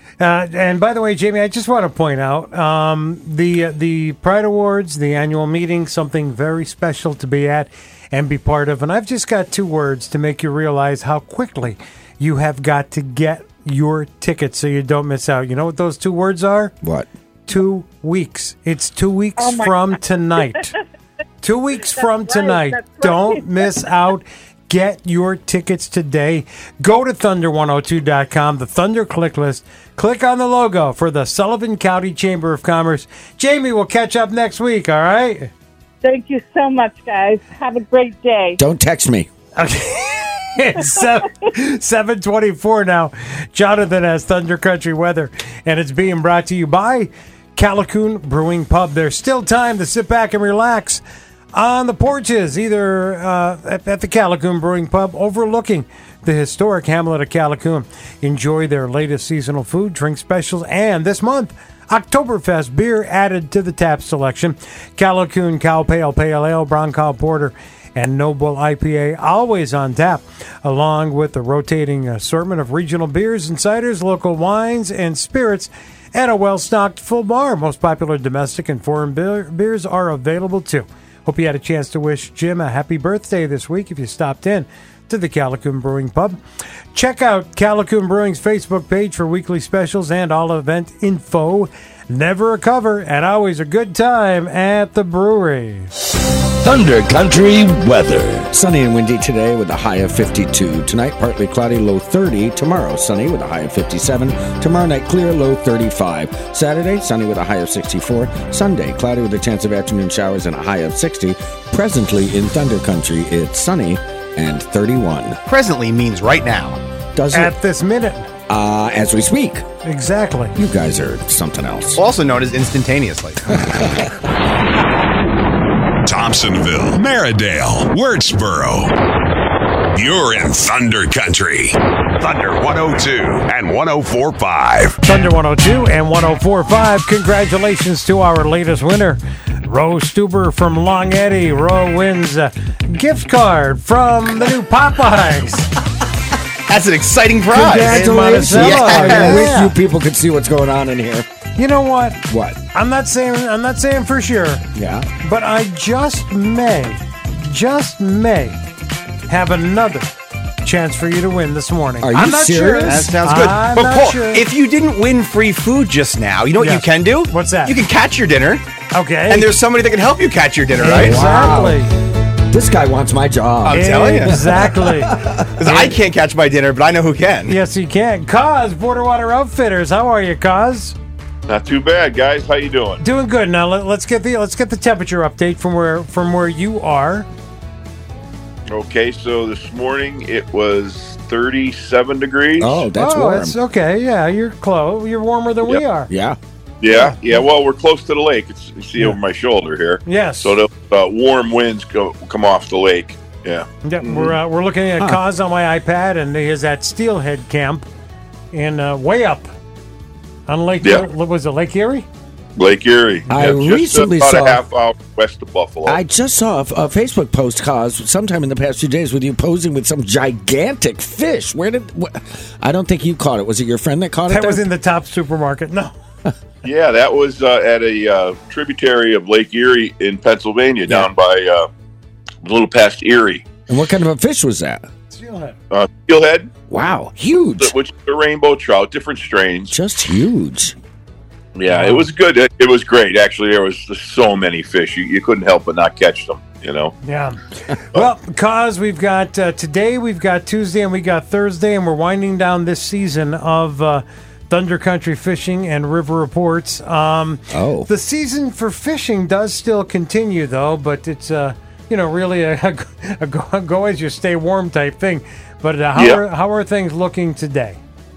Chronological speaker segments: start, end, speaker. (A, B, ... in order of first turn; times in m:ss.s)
0:00.2-0:16.7 A
0:16.8-0:17.1 B
0:17.5-0:20.8 A
0:19.4-0:19.9 C
0:21.4-0:35.5 A
0:22.0-0:23.7 C
0:36.0-0:38.6 C
0:38.6-0:39.3 B
0:39.6-0:51.0 A
0:51.5-1:26.4 A
1:26.9-1:35.9 A
1:38.5-1:55.4 B
1:55.4-1:56.8 D
1:57.2-1:57.5 B
1:57.3-1:58.3 A
1:58.5-1:59.6 B
1:59.8-2:00.5 A
2:00.6-2:02.0 B
2:02.0-2:03.6 D
2:06.0-2:08.9 E
2:09.9-2:15.0 E
2:15.0-2:25.7 A
2:26.7-2:29.5 D
2:27.5-2:31.2 B
2:27.8-2:29.7 A
2:31.6-2:34.6 A
2:32.3-2:32.6 B
2:34.7-2:35.1 B
2:35.2-2:38.6 A
2:39.3-2:40.1 A
2:40.6-2:44.4 A
2:42.0-2:43.1 B
2:42.8-2:48.6 D
2:46.6-2:47.8 A
2:48.9-2:49.5 A
2:49.3-2:51.3 D
2:50.8-2:51.9 A
2:50.9-2:51.8 B
2:52.5-2:55.8 B
2:53.6-2:54.4 D
2:53.7-2:55.2 A
2:55.6-2:57.6 D
2:57.5-3:00.9 A
3:01.5-3:03.0 F
3:03.0-3:07.3 A
3:08.7-3:12.8 F
3:12.6-3:13.5 B
3:12.9-3:16.1 A
3:16.1-3:16.4 B
3:16.8-3:24.3 F
3:20.0-3:20.6 A
3:23.8-3:27.9 A
3:28.5-3:29.5 A
3:30.5-3:32.0 A
3:32.6-3:36.0 F
3:33.3-3:34.6 B
3:35.8-3:44.6 B
3:44.3-3:45.9 A
3:46.6-3:51.7 F
3:52.4-3:53.4 F
3:53.7-3:54.8 B
3:55.1-3:55.6 A
3:55.7-3:56.5 F
3:56.7-3:57.7 B
3:57.6-3:59.7 F
3:59.7-4:00.8 B
4:01.6-4:06.9 F
4:01.7-4:02.0 A
4:07.0-4:07.4 A
4:07.9-4:27.8 A
4:17.5-4:17.9 B
4:26.0-4:26.2 F